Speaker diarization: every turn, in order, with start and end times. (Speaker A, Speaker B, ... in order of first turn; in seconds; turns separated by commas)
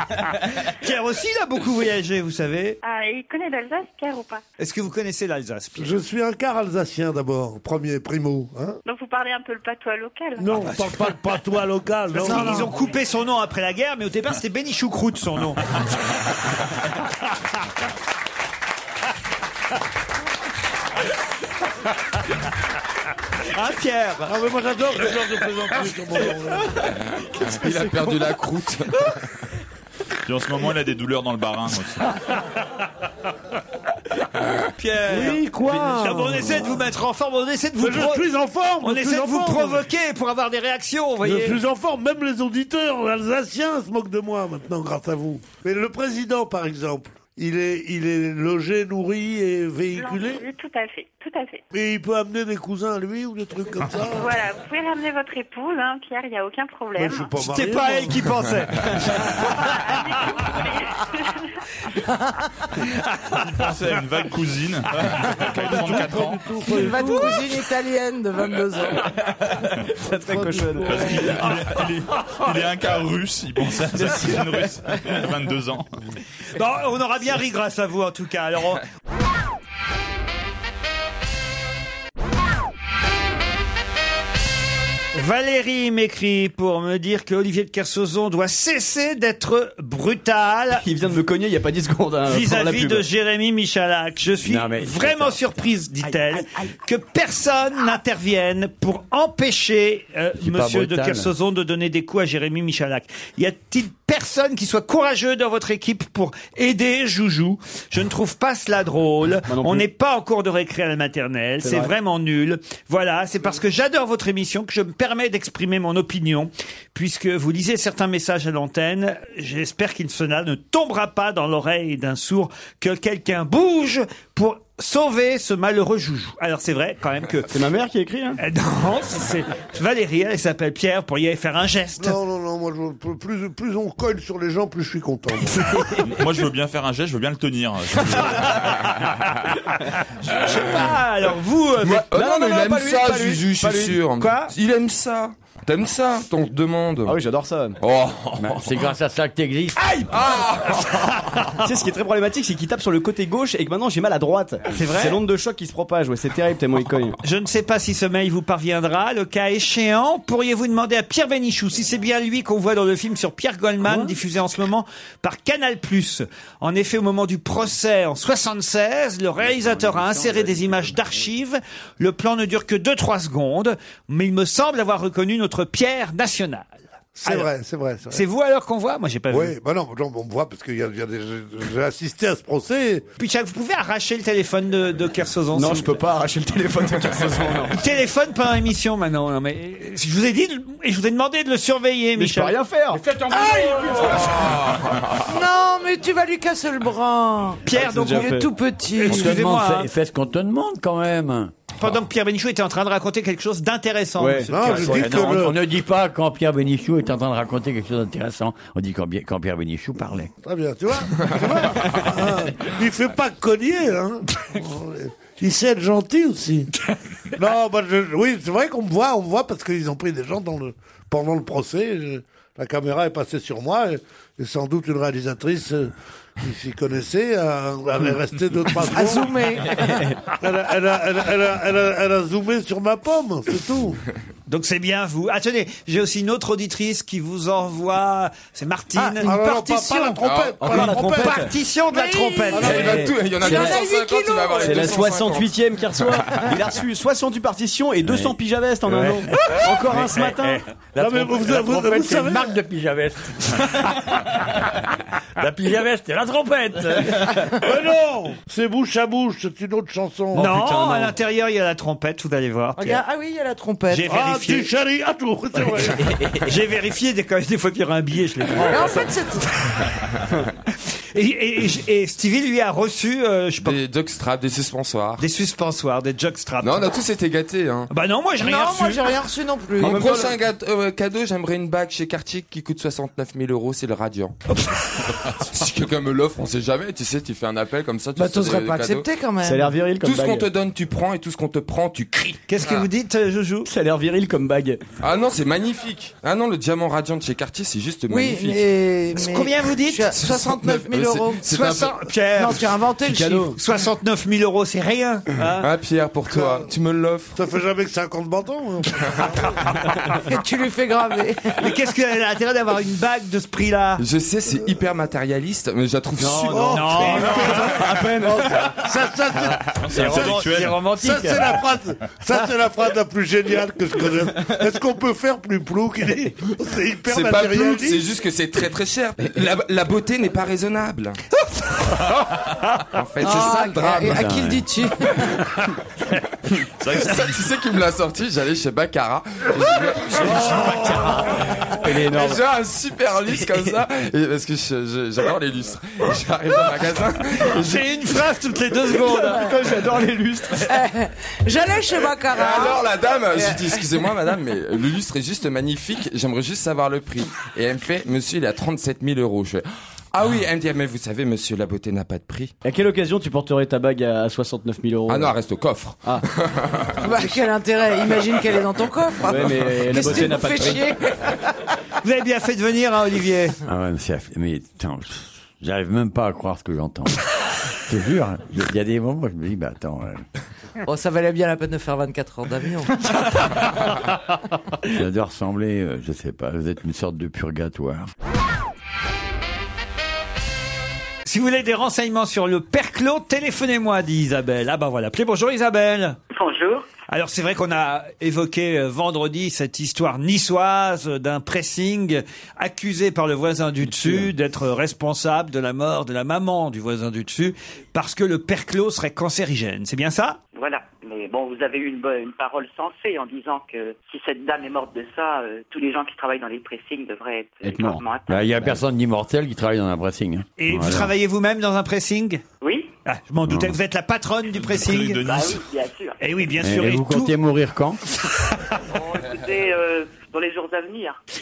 Speaker A: 0.4-2.8, Speaker B: 2.8-4.4, Speaker A: 4.6-6.0, Speaker C: 5.8-8.8, Speaker B: 8.8-10.7, Speaker C: 10.4-12.7, Speaker A: 10.6-11.0, Speaker A: 12.1-15.7, Speaker D: 12.2-12.7, Speaker A: 23.5-24.3, Speaker C: 24.3-26.8, Speaker E: 27.2-29.1, Speaker F: 27.4-28.2, Speaker G: 30.2-32.2, Speaker A: 34.8-38.2, Speaker C: 35.0-36.8, Speaker C: 37.8-39.8, Speaker A: 38.8-41.6, Speaker C: 41.2-50.4, Speaker B: 49.9-51.6, Speaker C: 51.7-54.4, Speaker B: 54.1-57.3, Speaker C: 56.9-58.4, Speaker A: 57.4-59.8, Speaker B: 59.3-61.5, Speaker A: 62.9-63.4, Speaker G: 63.3-67.0, Speaker C: 65.3-67.5, Speaker D: 66.6-69.1, Speaker A: 67.0-67.4, Speaker F: 69.3-71.9, Speaker C: 70.3-71.0, Speaker G: 70.8-75.9, Speaker A: 71.3-72.5, Speaker F: 73.9-75.2, Speaker A: 76.5-78.8, Speaker A: 85.1-90.8, Speaker F: 90.8-93.1, Speaker A: 92.3-127.5, Speaker H: 94.4-95.7, Speaker H: 100.4-101.3, Speaker F: 109.4-109.9, Speaker F: 111.6-111.9, Speaker F: 127.5-128.4, Speaker A: 128.4-132.2, Speaker C: 132.0-135.8, Speaker G: 136.0-139.2, Speaker A: 138.2-142.1, Speaker E: 141.8-147.2, Speaker F: 142.0-144.1, Speaker A: 144.2-144.5, Speaker F: 147.0-147.8, Speaker E: 147.8-148.9, Speaker H: 148.4-150.1, Speaker E: 150.0-151.4, Speaker F: 151.6-157.2, Speaker A: 154.7-155.2, Speaker A: 157.2-177.5, Speaker F: 163.8-164.2, Speaker H: 169.5-170.9, Speaker C: 177.2-178.2, Speaker A: 178.1-179.6, Speaker C: 179.3-183.0, Speaker A: 183.2-185.9, Speaker F: 185.5-187.8, Speaker A: 187.7-192.6, Speaker F: 192.1-193.0, Speaker H: 192.9-194.7, Speaker D: 193.3-194.0, Speaker E: 194.0-195.0, Speaker D: 195.2-199.4, Speaker A: 197.7-198.3, Speaker F: 197.7-198.5, Speaker A: 199.0-199.9, Speaker H: 199.1-201.5, Speaker A: 201.8-205.4, Speaker F: 204.2-204.7, Speaker C: 204.5-205.6, Speaker H: 204.7-210.3, Speaker C: 210.4-216.7, Speaker C: 217.3-229.3, Speaker D: 228.9-230.0, Speaker F: 229.8-230.2, Speaker C: 230.3-234.0, Speaker A: 234.5-243.1, Speaker C: 239.2-241.4, Speaker E: 240.2-240.6, Speaker F: 240.6-241.5, Speaker D: 241.9-245.1, Speaker C: 242.5-243.1, Speaker E: 242.5-246.1, Speaker F: 242.7-243.8, Speaker F: 244.6-250.6, Speaker H: 248.0-254.8, Speaker C: 251.0-252.6, Speaker H: 255.3-257.5, Speaker C: 257.5-260.6, Speaker A: 260.3-263.0, Speaker F: 260.4-261.2, Speaker D: 262.8-264.1, Speaker A: 263.9-264.7, Speaker C: 264.1-266.1, Speaker F: 266.0-266.4, Speaker A: 266.4-269.9, Speaker D: 268.7-269.5, Speaker A: 271.1-273.8, Speaker E: 273.6-275.2, Speaker A: 275.2-276.9, Speaker E: 276.6-277.9, Speaker A: 277.9-279.1, Speaker D: 278.4-280.2, Speaker F: 279.8-280.4, Speaker E: 279.8-284.4, Speaker A: 284.5-284.9, Speaker E: 285.2-289.1, Speaker D: 288.1-289.7, Speaker F: 289.4-290.5, Speaker E: 290.0-292.9, Speaker A: 292.5-293.7, Speaker F: 293.6-294.8, Speaker E: 295.0-298.7, Speaker D: 298.1-301.6, Speaker A: 299.1-300.4, Speaker E: 300.3-301.9, Speaker A: 301.4-302.7, Speaker D: 302.3-303.5, Speaker F: 303.0-303.6, Speaker A: 303.5-305.6, Speaker E: 305.6-307.4, Speaker C: 306.3-306.7, Speaker C: 307.3-309.8, Speaker D: 310.2-311.5, Speaker A: 311.5-314.0, Speaker E: 314.0-318.2, Speaker F: 316.2-318.8, Speaker C: 316.4-328.1, Speaker A: 316.7-317.8, Speaker G: 319.7-320.8, Speaker A: 319.9-321.5, Speaker E: 327.0-331.2, Speaker A: 331.5-332.0, Speaker E: 332.9-334.4, Speaker D: 333.2-335.4, Speaker H: 334.0-334.6, Speaker G: 336.8-337.3, Speaker E: 336.9-341.0, Speaker F: 340.1-342.4, Speaker C: 340.2-341.5, Speaker E: 341.8-347.9, Speaker F: 343.4-343.7, Speaker A: 347.5-349.5, Speaker F: 349.0-350.7, Speaker D: 350.6-353.9, Speaker E: 352.3-362.5, Speaker F: 362.6-365.4, Speaker E: 365.1-367.3, Speaker D: 367.0-371.3, Speaker F: 369.2-370.9, Speaker E: 370.0-370.4, Speaker A: 372.0-373.6, Speaker H: 373.6-380.2, Speaker D: 380.8-382.9, Speaker H: 384.8-388.1, Speaker A: 391.2-396.2, Speaker I: 396.3-396.9, Speaker A: 397.1-410.4, Speaker F: 403.9-404.3, Speaker I: 410.5-418.6, Speaker F: 417.6-418.0, Speaker H: 418.3-421.1, Speaker A: 420.6-422.4, Speaker I: 422.6-422.9, Speaker A: 423.0-425.2, Speaker H: 423.4-423.8, Speaker G: 424.5-425.6, Speaker I: 425.2-426.2, Speaker A: 426.2-427.4, Speaker H: 426.6-428.0, Speaker A: 428.5-428.8, Speaker I: 428.9-431.2